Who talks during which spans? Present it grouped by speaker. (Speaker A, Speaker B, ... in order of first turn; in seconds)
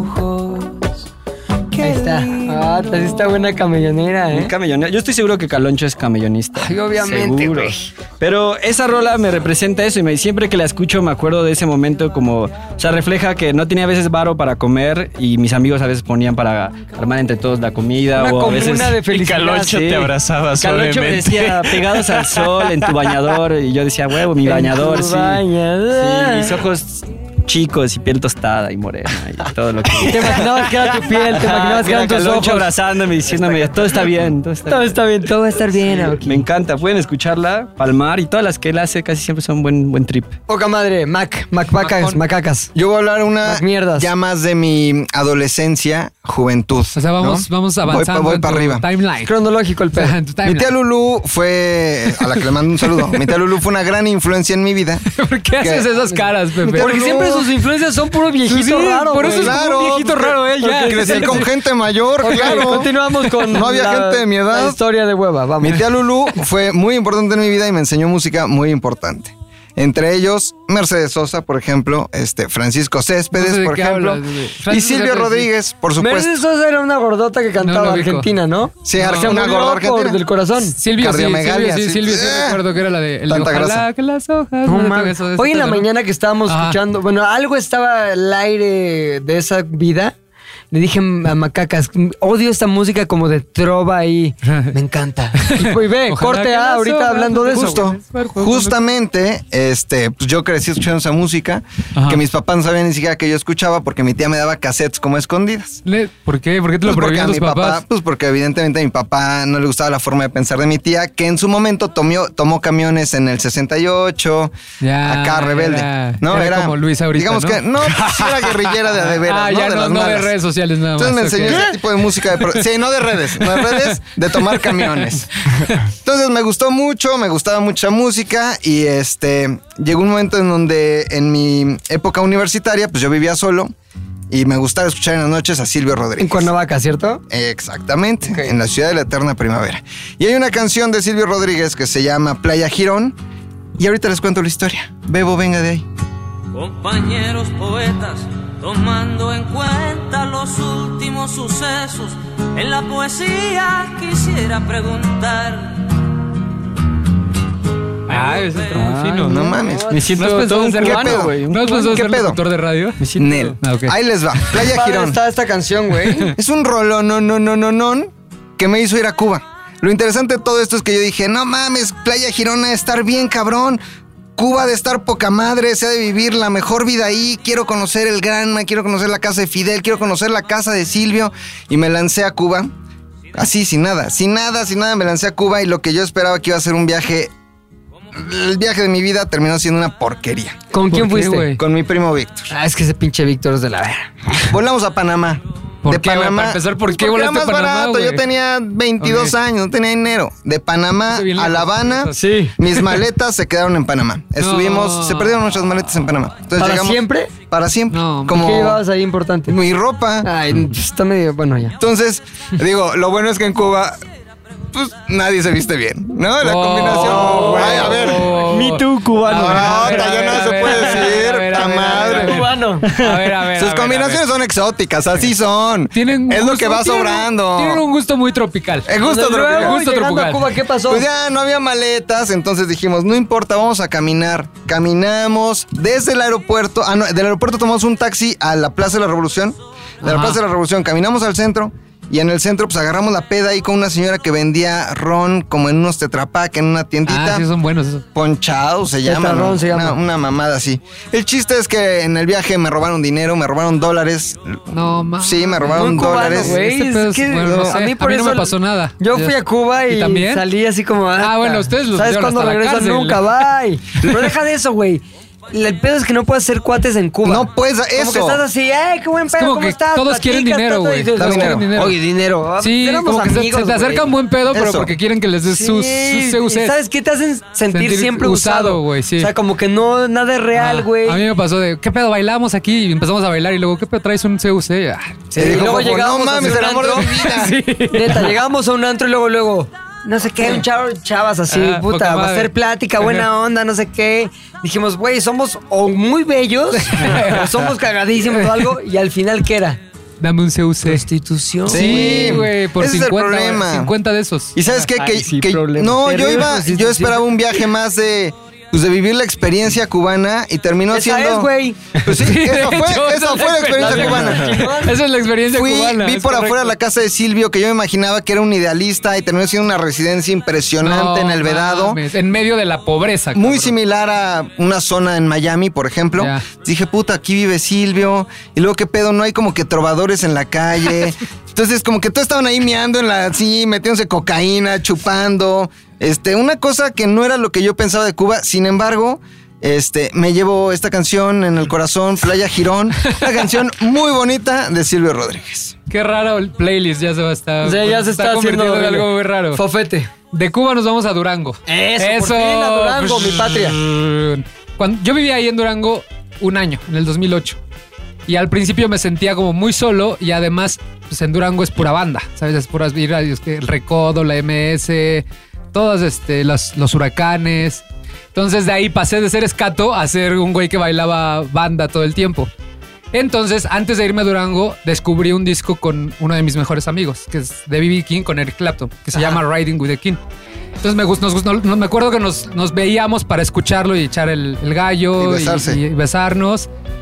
Speaker A: 1.8-4.5, 6.6-7.9, 18.1-20.1, 24.4-26.6, 30.0-32.7, 34.7-36.5, 40.5-42.7, 43.4-44.1, 49.2-50.1, 56.0-59.6, 60.6-61.5, 62.2-65.8, 76.0-80.8, 84.7-90.2, 90.7-97.9, 136.2-137.2, 138.3-138.5, 159.5-160.1, 164.5-166.3, 190.7-191.5, 192.5-194.5, 202.1-202.9, 206.6-207.3, 208.3-209.6, 210.2-211.8, 217.3-217.7, 221.5-222.9, 229.0-231.0, 249.1-250.0, 255.7-274.1, 275.5-281.2, 285.3-299.8, 300.9-302.4, 304.7-307.3, 310.9-311.8, 313.8-315.0, 347.6-350.1, 351.7-353.8
Speaker B: 1.8-3.1, 4.3-19.0, 19.8-20.1, 20.6-35.0, 35.8-40.4, 158.7-159.4, 159.9-161.9, 163.0-163.6, 217.1-220.1, 222.9-223.3
Speaker C: 19.1-22.8
Speaker D: 41.8-42.2, 47.0-49.3, 49.9-50.7, 55.2-57.1, 58.5-61.5, 62.2-62.9, 73.3-75.5, 77.6-78.3, 79.0-79.3, 80.8-85.9, 86.5-86.8, 95.4-98.8, 105.8-107.8, 114.8-118.0, 119.0-121.7, 123.6-123.9, 124.6-124.9, 158.1-159.4, 160.1-163.0, 163.6-163.9, 190.9-191.6, 195.8-198.2, 199.0-199.3, 201.1-202.2, 204.4-205.3, 207.9-208.5, 216.4-224.2, 225.9-230.5, 240.0-240.4, 247.1-248.0, 254.7-260.4, 261.2-263.3, 269.3-272.0, 272.6-276.8, 277.7-279.3, 280.6-285.5, 286.9-288.2, 291.5-293.3, 296.9-297.7, 298.4-298.6, 300.2-301.0, 301.7-304.6, 312.1-316.7, 320.8-323.7, 326.2-326.5, 345.9-349.6, 350.3-357.6, 358.3-372.5, 373.1-380.2, 380.8-386.7
Speaker E: 42.8-48.8, 50.4-55.9, 56.7-57.5, 59.2-62.9, 63.5-64.8, 65.6-76.4, 78.8-80.2, 81.0-82.6, 83.3-83.9, 97.6-105.8, 106.8-120.4, 121.0-133.7, 134.3-136.5, 137.3-143.2, 143.8-145.9, 159.2-160.0, 160.8-162.4, 163.2-165.2, 166.4-173.8, 174.4-182.7, 183.3-187.3, 188.1-190.6, 191.6-192.5, 194.5-208.8, 209.5-210.3, 211.8-214.0, 214.7-218.3, 219.4-222.4, 223.6-227.8, 228.9-229.8, 230.9-247.5, 248.2-254.6, 255.2-256.6, 257.4-257.7, 267.2-268.4, 271.2-271.7, 274.5-274.9, 285.4-287.6, 301.7-303.9, 304.6-314.6, 315.5-322.0, 323.4-345.7, 385.2-385.8
Speaker F: 146.5-155.9, 158.1-158.8